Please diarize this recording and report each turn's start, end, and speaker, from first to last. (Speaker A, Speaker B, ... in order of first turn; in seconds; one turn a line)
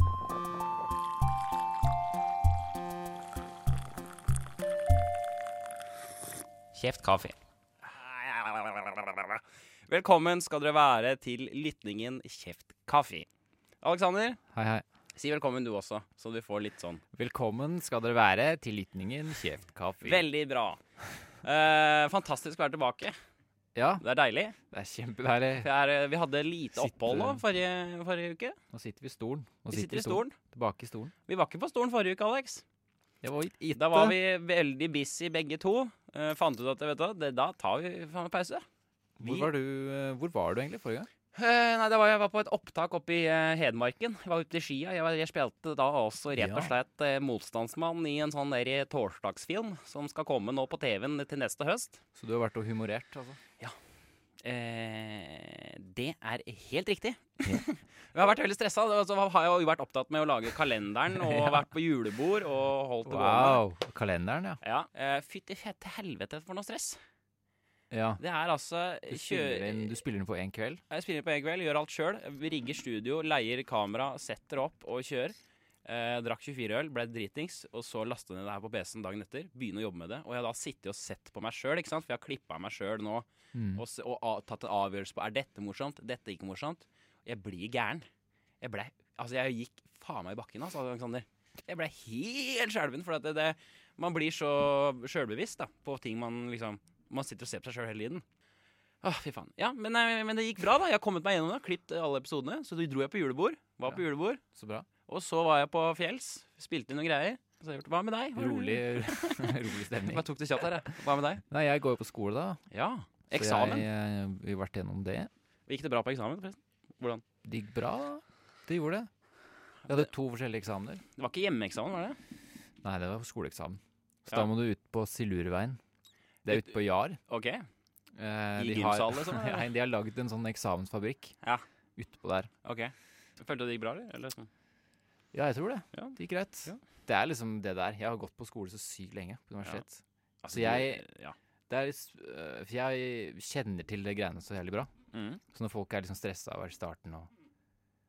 Speaker A: 6.7-13.3
Speaker A: 13.8-14.4
Speaker B: 14.5-14.8
Speaker A: 15.2-17.0
Speaker B: 17.1-20.2
Speaker A: 20.0-20.8
Speaker A: 21.4-23.1
Speaker B: 23.8-24.0
Speaker A: 24.0-24.6
Speaker B: 24.7-25.7
Speaker A: 25.6-28.6
Speaker B: 26.8-27.4
Speaker B: 28.7-31.1
Speaker A: 29.7-30.4
Speaker A: 31.3-32.6
Speaker B: 33.2-34.2
Speaker A: 33.8-38.7
Speaker B: 39.2-41.1
Speaker A: 39.2-39.5
Speaker A: 41.3-52.0
Speaker B: 46.4-46.7
Speaker B: 52.2-53.4
Speaker A: 54.4-63.6
Speaker B: 61.1-61.6
Speaker B: 63.1-64.6
Speaker A: 64.6-67.0
Speaker B: 67.9-68.2
Speaker A: 68.2-70.0
Speaker B: 69.1-70.8
Speaker A: 70.9-88.1
Speaker B: 83.5-83.8
Speaker A: 88.6-98.2
Speaker A: 99.0-104.4
Speaker B: 104.5-104.9
Speaker A: 105.1-111.4
Speaker B: 108.4-110.7
Speaker B: 111.5-112.6
Speaker A: 112.7-113.9
Speaker B: 113.3-115.3
Speaker A: 115.7-117.2
Speaker B: 117.5-119.1
Speaker B: 119.9-121.0
Speaker A: 121.2-122.2
Speaker B: 122.8-125.8
Speaker B: 126.5-127.2
Speaker A: 126.5-126.7
Speaker A: 127.3-127.6
Speaker B: 128.2-131.3
Speaker A: 128.6-129.7
Speaker B: 132.0-132.5
Speaker A: 132.6-134.5
Speaker B: 135.3-141.0
Speaker A: 135.9-136.8
Speaker A: 140.4-141.3
Speaker B: 141.7-144.9
Speaker A: 145.1-145.4
Speaker B: 145.5-147.3